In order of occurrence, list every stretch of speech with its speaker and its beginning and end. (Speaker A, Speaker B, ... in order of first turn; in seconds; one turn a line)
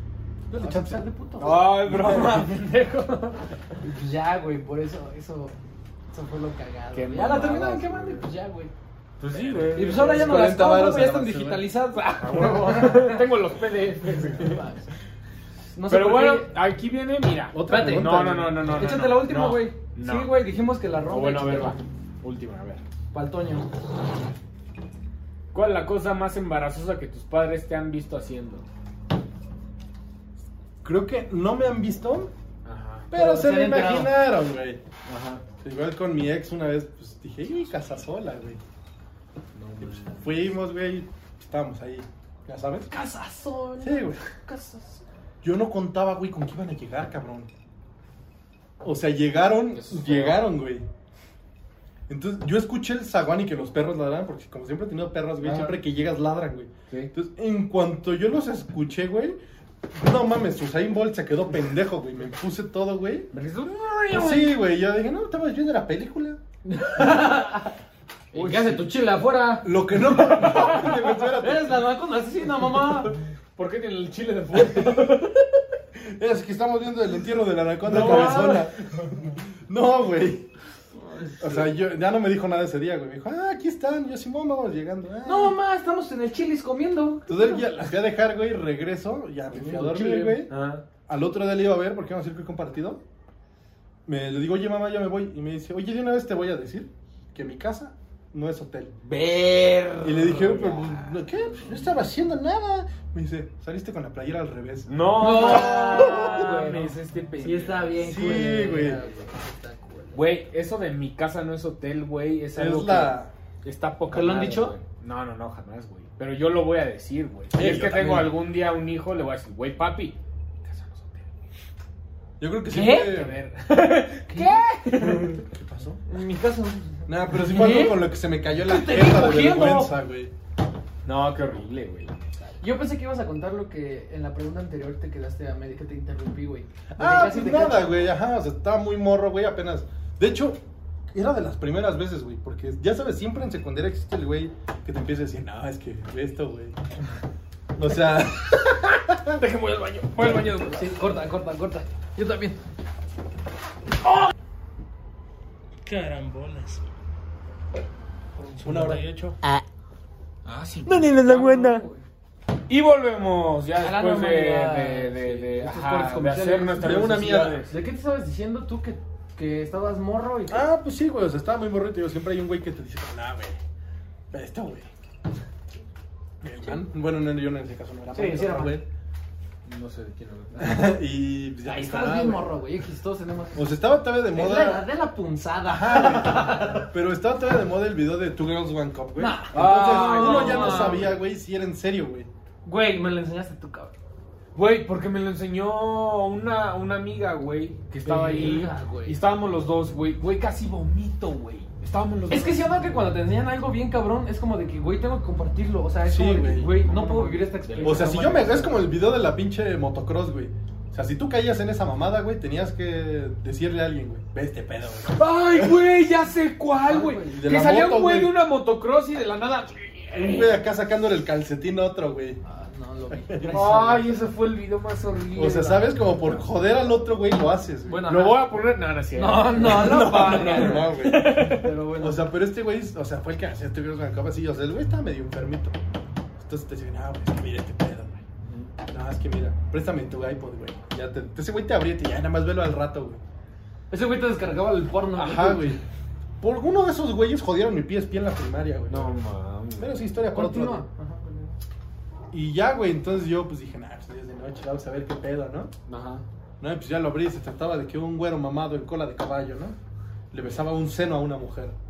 Speaker A: 0.5-1.0
Speaker B: 0.6-1.6
Speaker C: 1.4-3.5
Speaker A: 1.8-2.5
Speaker B: 3.8-5.5
Speaker B: 6.1-8.7
Speaker C: 6.9-8.2
Speaker C: 9.2-10.5
Speaker A: 9.4-11.7
Speaker B: 9.5-13.2
Speaker C: 12.1-14.6
Speaker B: 14.2-14.9
Speaker B: 15.7-16.5
Speaker C: 15.9-20.3
Speaker A: 17.5-18.5
Speaker B: 17.7-21.8
Speaker C: 21.1-22.8
Speaker B: 23.1-23.7
Speaker C: 25.5-28.6
Speaker A: 30.8-32.3
Speaker C: 32.6-33.1
Speaker A: 33.1-34.8
Speaker B: 33.1-34.1
Speaker C: 35.1-35.4
Speaker A: 35.6-38.6
Speaker C: 39.5-40.3
Speaker A: 39.8-42.9
Speaker B: 42.9-45.0
Speaker A: 43.8-44.2
Speaker A: 45.4-47.5
Speaker A: 48.8-50.9
Speaker C: 49.7-50.5
Speaker A: 52.1-59.4
Speaker C: 55.4-55.8
Speaker A: 59.9-63.3
Speaker C: 63.3-64.5
Speaker A: 64.1-66.4
Speaker B: 66.6-67.7
Speaker C: 68.3-68.8
Speaker B: 68.3-73.1
Speaker A: 69.6-71.8
Speaker C: 73.5-75.3
Speaker A: 76.0-80.5
Speaker C: 77.8-78.7
Speaker B: 78.0-78.6
Speaker B: 81.0-81.7
Speaker A: 81.4-85.5
Speaker B: 85.2-87.7
Speaker A: 87.3-90.5
Speaker B: 89.5-90.4
Speaker C: 90.5-90.8
Speaker A: 91.1-93.0
Speaker A: 94.0-98.9
Speaker C: 99.0-101.2
Speaker A: 100.0-106.5
Speaker B: 101.4-101.7
Speaker C: 104.9-108.2
Speaker B: 105.2-110.2
Speaker A: 108.0-109.0
Speaker C: 110.1-121.3
Speaker A: 112.5-113.3
Speaker B: 114.1-114.7
Speaker A: 117.5-118.3
Speaker A: 122.4-123.4
Speaker B: 122.7-123.2
Speaker C: 123.0-125.4
Speaker B: 124.3-124.6
Speaker A: 125.3-126.0
Speaker B: 126.1-128.1
Speaker A: 127.1-130.3
Speaker B: 128.6-129.9
Speaker C: 131.0-132.5
Speaker B: 132.6-137.9
Speaker A: 136.9-140.6
Speaker A: 141.1-146.8
Speaker A: 147.7-149.4
Speaker C: 149.3-151.0
Speaker B: 150.2-152.6
Speaker D: 155.8-156.8
Speaker D: 158.5-159.4
Speaker A: 158.6-159.1
Speaker B: 160.5-162.0
Speaker C: 160.8-161.8
Speaker C: 162.7-167.7
Speaker B: 163.8-170.6
Speaker A: 166.8-167.6
Speaker A: 170.5-173.6
Speaker A: 174.3-174.9
Speaker A: 176.4-178.8
Speaker B: 178.1-178.8
Speaker C: 179.7-180.9
Speaker A: 180.6-182.4
Speaker B: 181.6-183.7
Speaker A: 183.5-184.8
Speaker B: 184.3-186.9
Speaker A: 185.7-192.3
Speaker B: 189.2-191.1
Speaker C: 189.5-191.0
Speaker B: 192.6-193.9
Speaker C: 194.5-202.6
Speaker B: 198.0-199.2
Speaker B: 202.3-208.8
Speaker A: 206.0-206.8
Speaker C: 206.8-208.2
Speaker A: 207.8-215.8
Speaker C: 215.1-220.6
Speaker B: 216.8-217.4
Speaker A: 217.3-218.3
Speaker A: 220.1-222.4
Speaker B: 222.4-224.1
Speaker A: 223.1-223.6
Speaker C: 223.5-226.1
Speaker A: 225.3-228.1
Speaker B: 227.8-228.4
Speaker C: 228.1-231.7
Speaker B: 229.1-232.3
Speaker A: 229.5-231.4
Speaker A: 232.0-235.8
Speaker A: 236.4-238.2
Speaker C: 238.5-238.7
Speaker A: 238.9-243.2
Speaker B: 243.9-245.8
Speaker A: 245.2-245.8
Speaker A: 246.4-249.2
Speaker C: 248.9-250.0
Speaker A: 249.8-250.8
Speaker B: 250.3-251.6
Speaker A: 252.3-255.7
Speaker C: 255.9-256.2
Speaker A: 256.6-259.8
Speaker A: 260.3-261.8